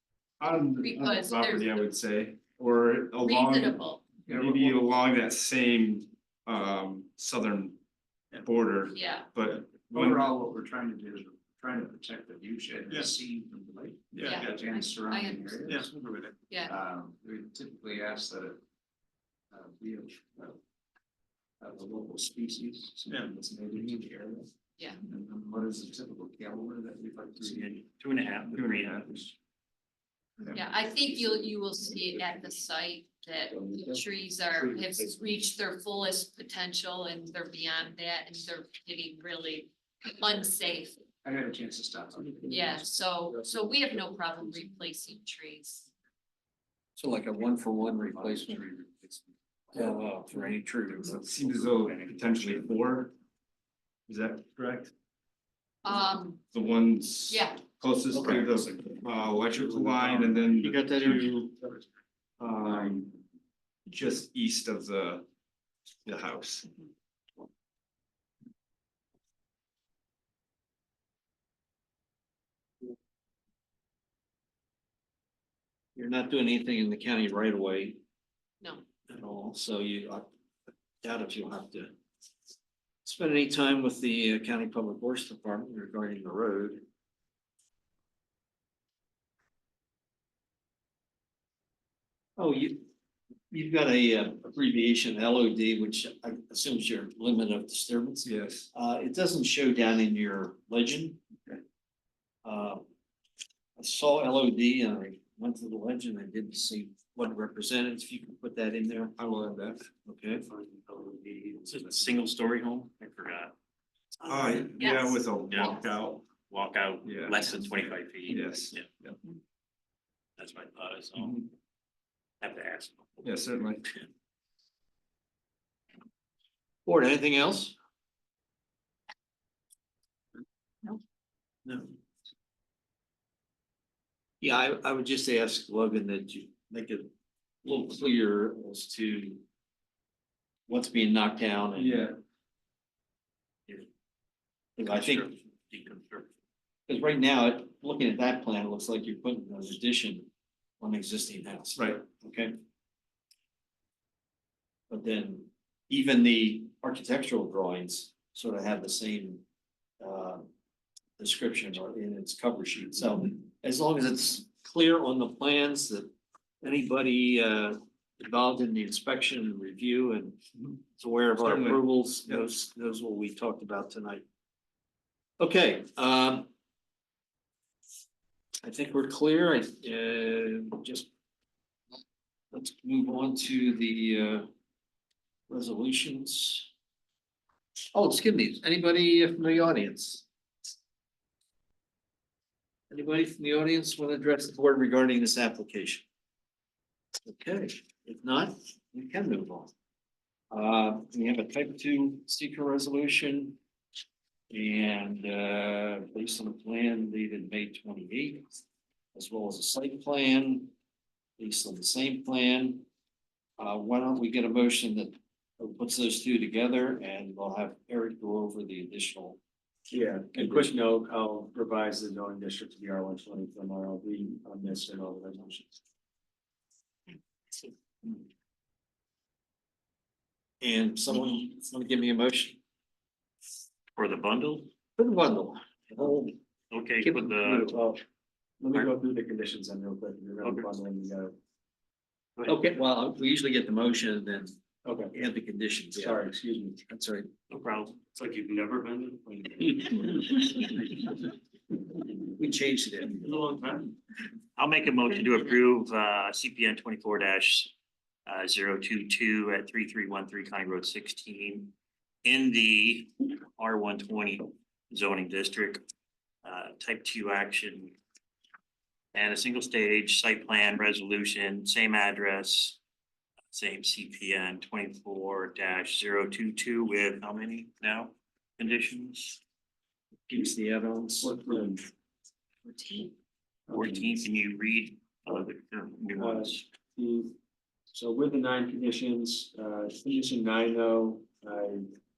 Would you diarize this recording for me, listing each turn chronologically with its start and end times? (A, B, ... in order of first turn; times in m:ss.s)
0:00.4-0:07.8 A
0:00.8-0:01.9 B
0:03.2-0:04.0 B
0:04.3-0:04.9 C
0:08.4-0:10.3 A
0:08.9-0:09.3 B
0:09.7-0:18.6 C
0:14.2-0:15.6 B
0:16.5-0:16.8 B
0:19.5-0:20.6 C
0:21.6-0:24.5 C
0:25.0-0:27.8 C
0:27.5-0:29.2 D
0:28.6-0:29.1 A
0:29.0-0:29.3 C
0:30.5-0:41.0 B
0:41.2-0:43.5 C
0:42.5-0:45.9 B
0:47.0-0:48.7 E
0:47.8-0:50.0 C
0:49.7-0:51.2 E
0:51.0-0:53.1 A
0:51.1-0:52.7 C
0:54.1-0:54.9 A
0:55.8-0:56.4 B
0:56.5-1:01.6 A
0:57.3-0:57.6 B
0:58.1-0:58.4 E
0:58.1-1:00.6 C
1:00.6-1:01.3 E
1:02.4-1:03.2 A
1:03.9-1:05.3 A
1:06.0-1:06.7 A
1:16.0-1:18.0 E
1:19.1-1:20.3 E
1:21.0-1:22.0 E
1:23.0-1:26.8 E
1:32.4-1:32.9 E
1:33.5-1:41.2 E
1:38.2-1:38.7 A
1:42.4-1:42.9 E
1:43.8-1:49.2 E
1:49.2-1:49.9 A
1:50.1-1:50.5 E
1:50.6-1:51.6 C
1:51.6-1:53.5 D
1:54.2-1:56.2 A
1:54.8-1:55.2 B
1:55.5-1:55.8 D
1:56.5-1:58.9 D
1:57.0-1:57.5 A
1:58.3-1:59.2 A
2:00.4-2:01.5 D
2:01.2-2:01.4 A
2:02.4-2:03.2 D
2:03.2-2:03.8 A
2:06.9-2:07.8 E
2:11.7-2:11.9 E
2:14.4-2:17.1 E
2:17.6-2:19.4 E
2:20.7-2:22.1 E
2:21.8-2:22.2 A
2:24.8-2:25.3 E
2:24.9-2:26.3 D
2:26.9-2:30.3 E
2:30.8-2:32.5 E
2:31.8-2:32.0 A
2:34.9-2:39.4 E
2:40.0-2:40.5 E
2:41.2-2:50.4 E
2:51.0-2:54.2 E
2:51.4-2:52.4 A
2:55.4-2:56.5 E
2:58.6-3:01.1 E
3:02.5-3:04.5 E
3:05.5-3:06.7 E
3:07.9-3:10.2 E
3:12.9-3:16.0 E
3:17.2-3:19.7 E
3:20.5-3:23.6 E
3:24.5-3:28.5 E
3:29.2-3:30.7 E
3:31.4-3:32.9 E
3:33.6-3:39.4 E
3:39.9-3:45.8 F
3:40.3-3:40.7 E
3:50.6-3:52.6 E
3:54.0-3:54.7 D
3:55.0-3:56.4 E
3:56.7-3:57.8 D
3:57.2-3:58.0 F
3:58.6-4:01.4 F
4:02.4-4:02.6 D
4:02.5-4:04.5 E
4:04.8-4:05.1 F
4:05.1-4:06.2 E
4:06.0-4:06.8 F
4:06.9-4:07.3 E
4:07.5-4:08.7 D
4:12.4-4:13.3 E
4:14.6-4:17.7 D
4:18.3-4:21.7 D
4:22.2-4:25.8 D
4:26.4-4:28.0 D
4:29.1-4:32.8 D
4:33.5-4:39.4 D
4:40.3-4:41.4 E
4:41.2-4:41.8 F
4:43.7-4:44.1 F
4:43.7-4:46.6 D
4:46.2-4:47.3 F
4:47.9-4:51.9 F